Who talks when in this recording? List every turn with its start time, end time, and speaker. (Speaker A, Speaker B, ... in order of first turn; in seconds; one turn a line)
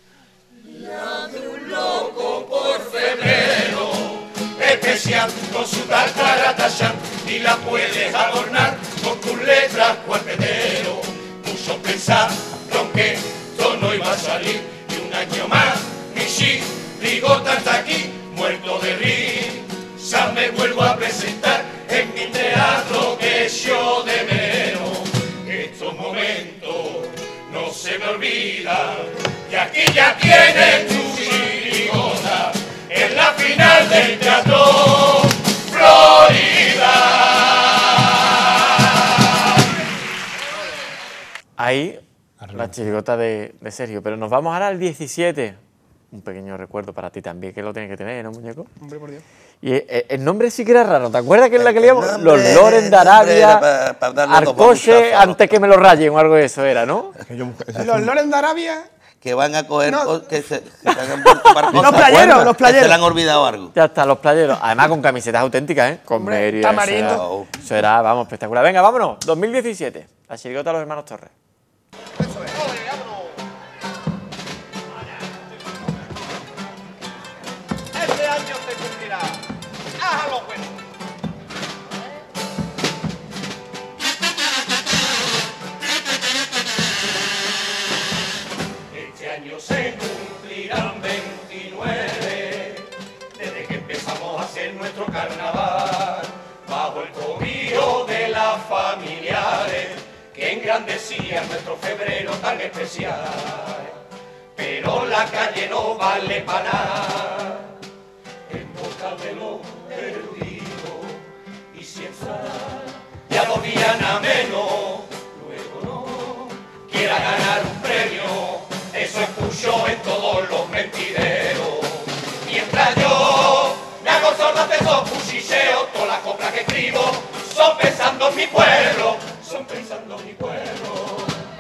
Speaker A: 0.7-37.9
Speaker B: 41.6-42.0
Speaker C: 42.4-42.8
Speaker B: 42.5-45.6
Speaker B: 46.1-48.7
Speaker D: 48.8-49.2
Speaker B: 49.6-53.6
Speaker E: 51.6-55.4
Speaker B: 54.2-57.2
Speaker C: 57.2-58.1
Speaker D: 57.8-58.9
Speaker E: 59.2-63.7
Speaker D: 59.9-60.2
Speaker D: 61.7-63.1
Speaker C: 61.8-62.5
Speaker B: 63.7-71.3
Speaker D: 66.1-67.4
Speaker E: 67.1-67.5
Speaker A: 78.3-78.9
Speaker A: 80.1-80.4
Speaker A: 88.9-104.0
Speaker A: 104.6-107.7
Speaker A: 108.5-111.2
Speaker A: 111.7-131.4